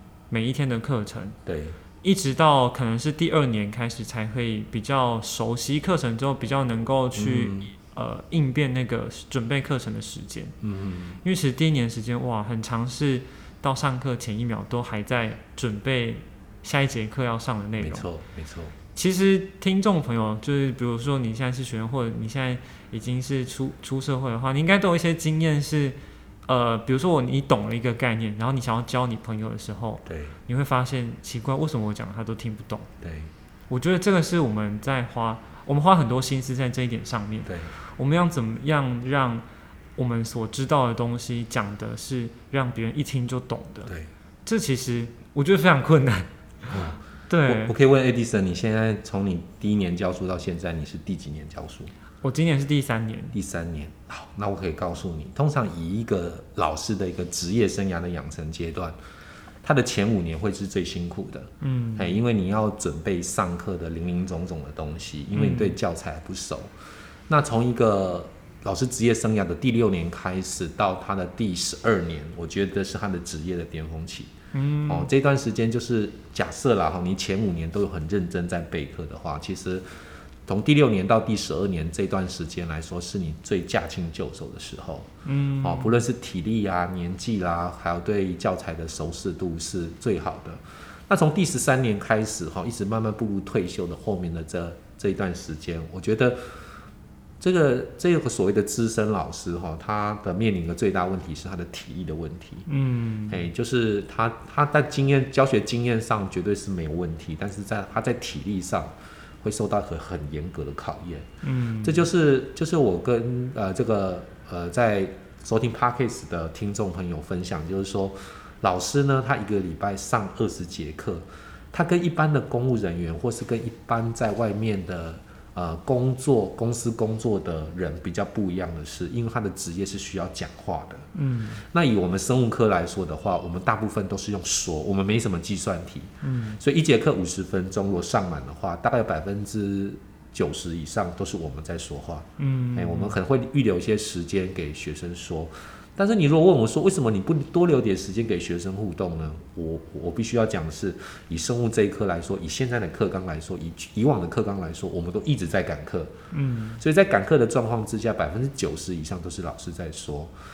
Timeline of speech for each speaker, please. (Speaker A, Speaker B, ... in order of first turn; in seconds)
Speaker A: 0.3-1.4, 2.0-10.5, 11.2-18.1, 18.9-32.9, 33.7-39.5, 40.0-43.9, 44.5-46.3, 47.3-47.8, 52.2-53.4, 61.6-62.2, 65.3-65.8, 74.5-75.1, 85.2-86.0, 102.7-103.5, 111.4-112.0, 131.2-131.6, 136.2-136.6, 142.4-143.2, 156.3-156.8
Speaker B: 1.5-1.8, 7.2-7.7, 10.6-11.2, 17.8-18.8, 30.1-30.4, 33.0-33.3, 37.5-37.7, 46.7-51.9, 53.3-59.0, 59.6-66.7, 67.3-74.3, 74.9-85.1, 85.6-96.6, 97.4-102.7, 103.3-111.3, 111.8-131.1, 131.6-156.1, 156.8-160.3